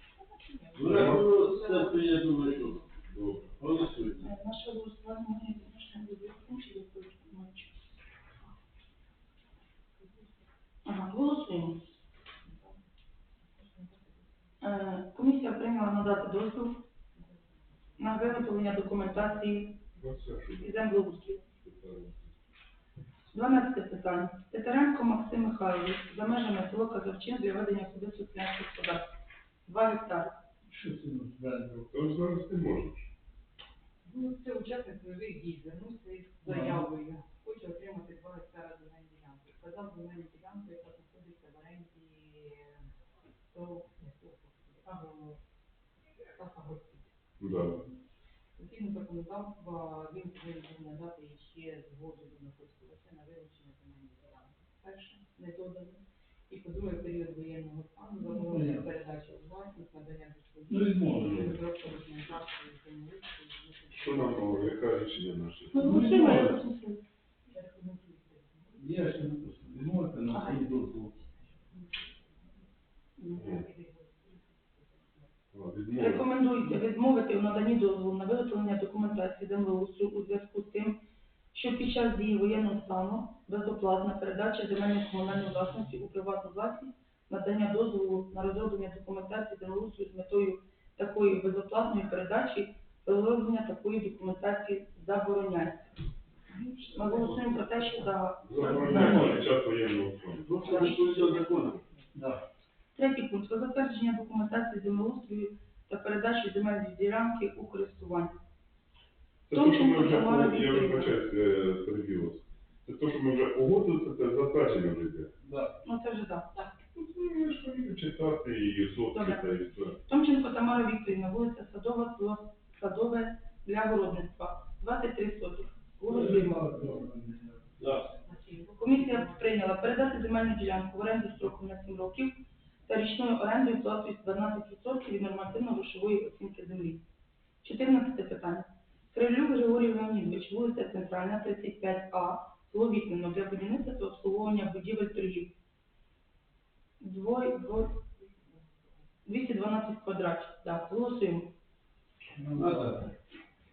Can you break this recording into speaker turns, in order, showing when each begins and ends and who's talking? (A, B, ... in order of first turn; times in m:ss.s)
0:00.3-0:02.9 A
0:00.8-0:01.2 B
0:00.8-0:02.8 C
0:03.1-0:03.5 B
0:03.6-0:04.3 C
0:04.2-0:07.8 D
0:10.8-0:11.8 D
0:13.6-0:14.0 A
0:14.6-0:16.8 D
0:18.0-0:19.8 D
0:20.0-0:20.7 B
0:20.6-0:21.4 D
0:21.6-0:22.2 B
0:23.3-0:29.1 D
0:29.6-0:30.3 D
0:30.7-0:31.9 E
0:31.9-0:33.0 B
0:34.0-0:42.8 A
0:36.4-0:36.9 E
0:43.5-0:45.4 A
0:46.3-0:47.1 A
0:47.4-0:47.8 B
0:48.6-1:04.8 A
0:58.2-0:58.9 E
1:00.7-1:01.5 E
1:01.2-1:01.6 B
1:03.9-1:05.9 B
1:05.7-1:06.6 E
1:05.7-1:07.0 D
1:07.5-1:09.1 A
1:08.8-1:11.2 E
1:10.3-1:10.6 D
1:13.2-1:13.5 D
1:13.2-1:15.2 A
1:13.3-1:13.6 B
1:15.5-1:16.3 B
1:16.0-1:21.0 D
1:21.5-1:36.0 D
1:36.8-1:39.3 D
1:36.9-1:37.3 A
1:38.4-1:40.5 B
1:38.5-1:39.4 E
1:40.4-1:41.8 C
1:40.6-1:41.3 D
1:42.1-1:42.4 E
1:42.9-1:48.4 D
1:49.5-1:55.3 B
1:49.5-1:51.2 D
1:55.4-1:55.8 E
1:55.8-1:56.6 D
1:57.0-2:00.0 B
1:59.1-2:07.0 D
2:06.1-2:07.7 E
2:07.8-2:08.2 C
2:08.2-2:09.5 A
2:08.8-2:17.0 D
2:17.6-2:25.5 D
2:27.0-2:28.0 D
2:29.2-2:31.5 D
2:32.4-2:33.0 E
2:32.6-2:33.1 C